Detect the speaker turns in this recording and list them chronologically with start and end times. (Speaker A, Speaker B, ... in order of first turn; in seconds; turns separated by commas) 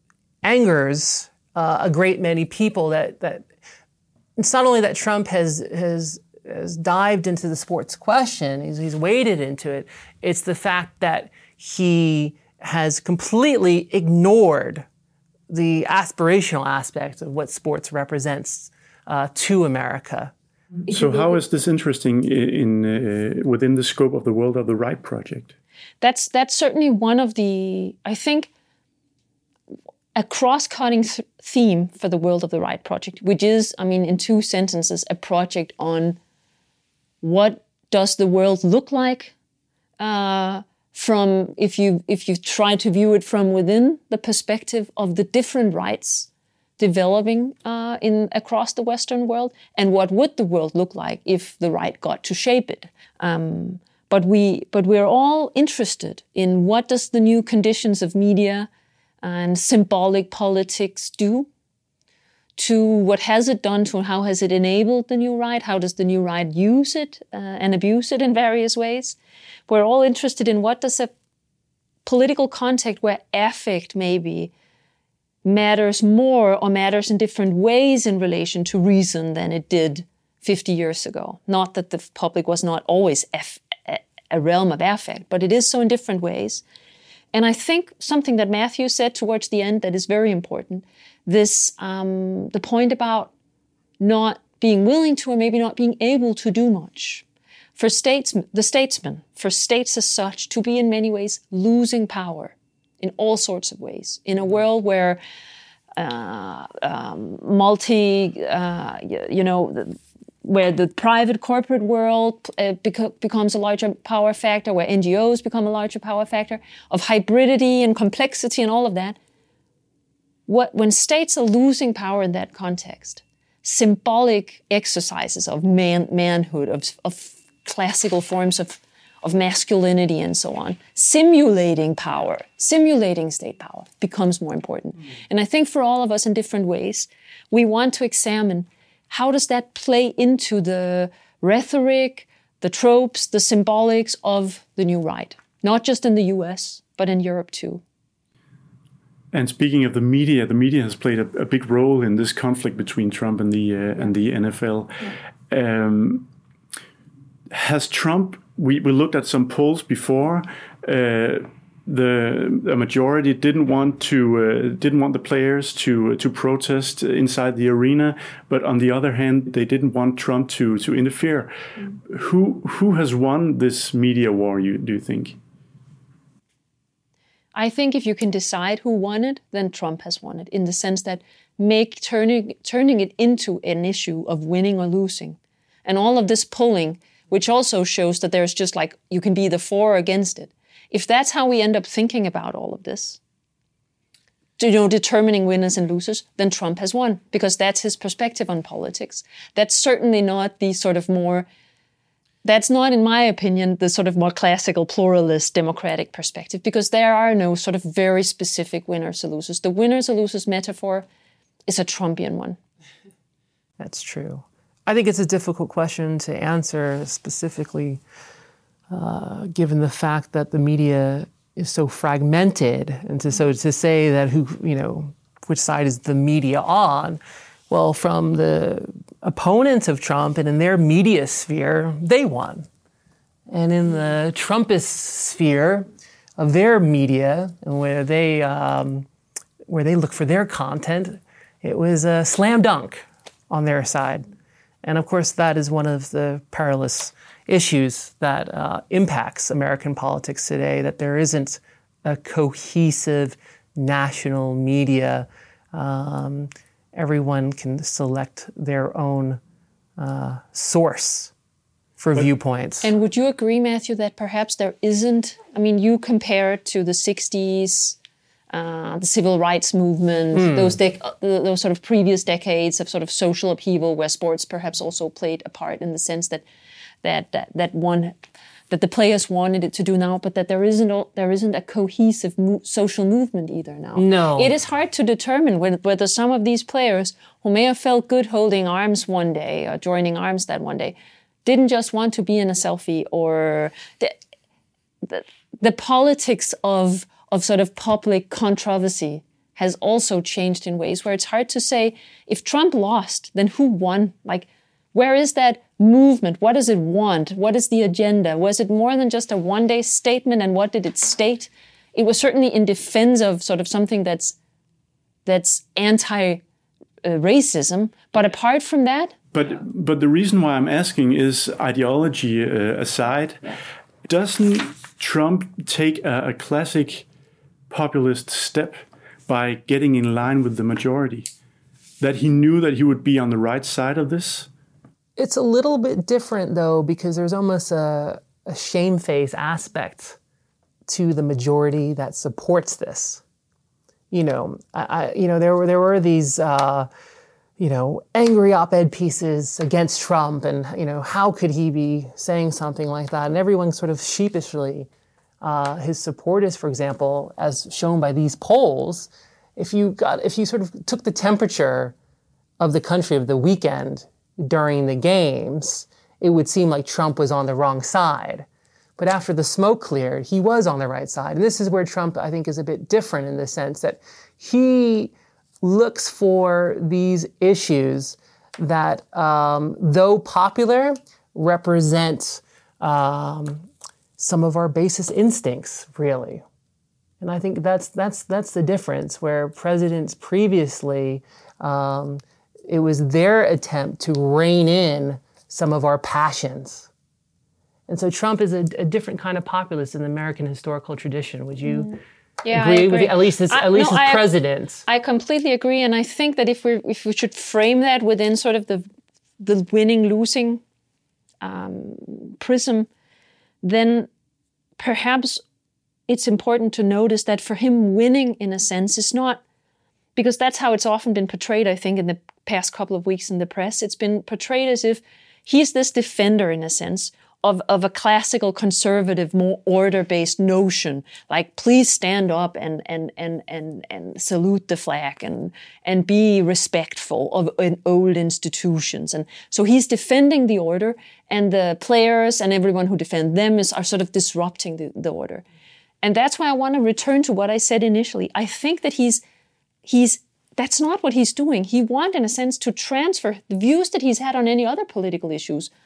Speaker A: 0.4-3.5, Speaker A: 4.4-14.8, Speaker A: 15.5-20.3, Speaker B: 20.9-21.2, Speaker C: 20.9-25.5, Speaker B: 26.0-28.5, Speaker B: 30.1-36.2, Speaker B: 37.2-39.3, Speaker B: 40.0-58.7, Speaker B: 59.2-61.5, Speaker B: 62.6-71.1, Speaker B: 72.0-74.5, Speaker B: 75.4-86.6, Speaker B: 87.3-93.3, Speaker B: 94.0-97.2, Speaker B: 97.8-105.2, Speaker B: 106.0-119.2, Speaker B: 120.5-147.8, Speaker C: 149.3-156.3, Speaker C: 157.5-171.5, Speaker C: 172.1-175.4, Speaker B: 177.5-193.2, Speaker B: 194.6-201.5, Speaker B: 202.4-211.1, Speaker B: 211.7-212.6, Speaker A: 213.8-218.0, Speaker A: 218.9-232.7, Speaker A: 233.5-239.1, Speaker A: 239.7-244.3, Speaker A: 244.8-259.4, Speaker A: 260.0-261.3, Speaker A: 262.0-262.9, Speaker B: 262.8-268.0, Speaker B: 268.5-276.4, Speaker A: 270.3-270.8, Speaker B: 277.0-278.2, Speaker B: 278.7-294.2, Speaker A: 283.9-284.5, Speaker B: 295.0-314.4, Speaker B: 315.2-316.4, Speaker B: 317.0-319.1, Speaker C: 319.3-323.5, Speaker C: 324.1-327.0, Speaker C: 327.7-331.3, Speaker C: 332.0-334.5, Speaker A: 335.2-340.2, Speaker A: 340.9-343.2, Speaker A: 344.1-346.9, Speaker A: 347.6-354.9, Speaker A: 355.4-361.9, Speaker A: 362.6-368.5, Speaker A: 369.0-383.7, Speaker A: 384.2-386.4, Speaker A: 387.2-396.9, Speaker A: 397.9-402.0, Speaker B: 402.4-404.3, Speaker A: 402.5-404.8, Speaker B: 404.9-408.9, Speaker B: 409.4-410.6, Speaker B: 411.4-412.9, Speaker B: 413.6-414.1, Speaker B: 414.8-415.4, Speaker B: 416.1-419.4, Speaker B: 420.1-445.4, Speaker B: 446.0-449.2, Speaker B: 449.8-455.7